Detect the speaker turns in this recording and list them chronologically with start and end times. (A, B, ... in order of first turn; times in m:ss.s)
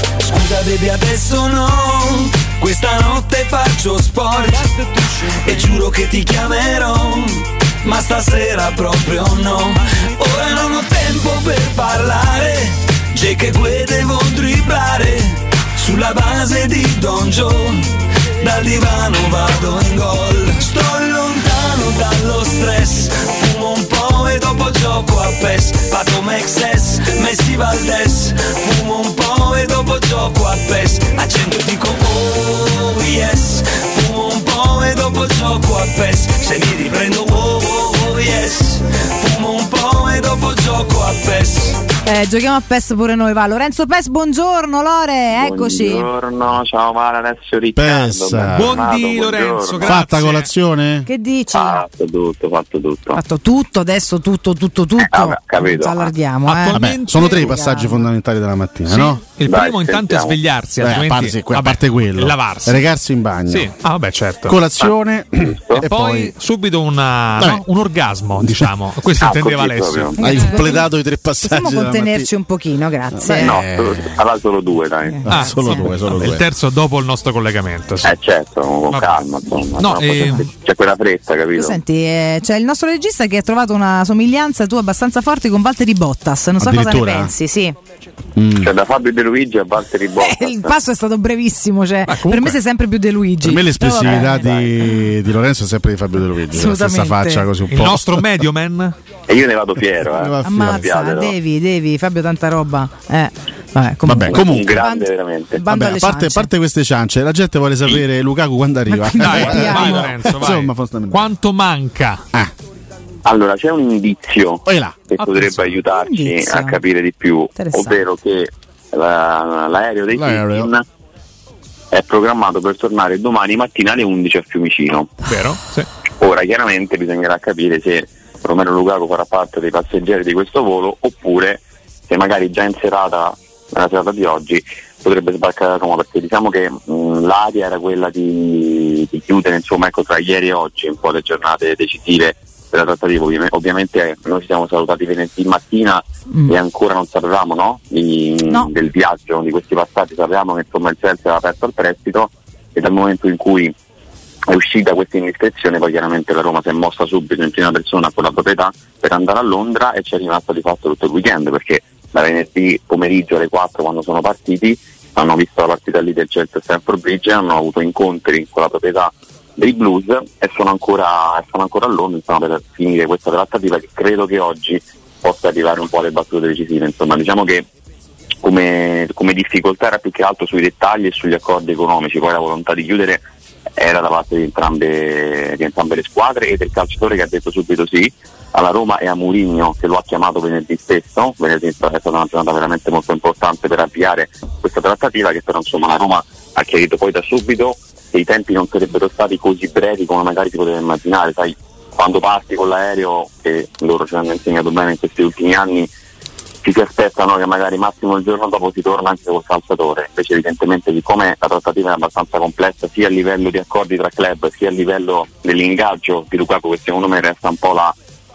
0:00.2-0:41.8 A
0:42.0-0:46.1 B
0:45.3-0:50.0 C
0:47.8-0:48.8 D
0:48.5-0:50.5 E
0:49.8-0:51.1 D
0:51.0-0:51.8 B
0:51.5-0:53.2 C
0:53.1-0:58.1 B
0:55.0-0:56.1 C
0:56.4-0:57.5 E
0:56.7-0:59.2 D
0:58.9-1:02.8 E
0:59.4-1:00.4 C
1:00.8-1:03.7 D
1:03.5-1:04.6 E
1:04.4-1:06.3 D
1:04.8-1:05.8 C
1:05.8-1:10.2 E
1:07.4-1:07.6 D
1:08.4-1:08.7 D
1:09.2-1:10.2 C
1:10.2-1:10.9 B
1:10.2-1:12.3 D
1:11.4-1:13.6 B
1:13.1-1:14.2 D
1:13.3-1:15.3 C
1:15.1-1:15.8 B
1:15.2-1:16.4 D
1:15.3-1:18.1 E
1:18.0-1:21.8 C
1:18.9-1:19.2 E
1:19.8-1:20.4 E
1:21.5-1:27.8 B
1:26.6-1:27.3 D
1:28.4-1:28.7 D
1:28.6-1:30.7 C
1:30.2-1:35.0 B
1:32.1-1:32.6 E
1:33.4-1:38.2 D
1:36.5-1:37.5 B
1:37.7-1:39.0 E
1:39.3-1:41.3 C
1:40.1-1:40.9 D
1:40.4-1:46.5 B
1:44.0-1:44.8 D
1:44.3-1:45.6 C
1:45.6-1:51.3 D
1:48.9-1:50.1 B
1:49.2-1:52.2 E
1:53.2-2:00.8 C
1:54.6-1:55.2 D
1:55.2-1:55.8 E
1:55.9-1:56.8 B
1:57.6-1:58.0 B
2:00.1-2:00.7 D
2:01.9-2:05.1 C
2:05.2-2:05.9 E
2:06.2-2:33.7 C
2:26.3-2:26.6 B
2:34.5-2:57.7 C
2:58.4-3:03.2 C
3:03.8-3:25.9 C
3:26.6-3:37.9 C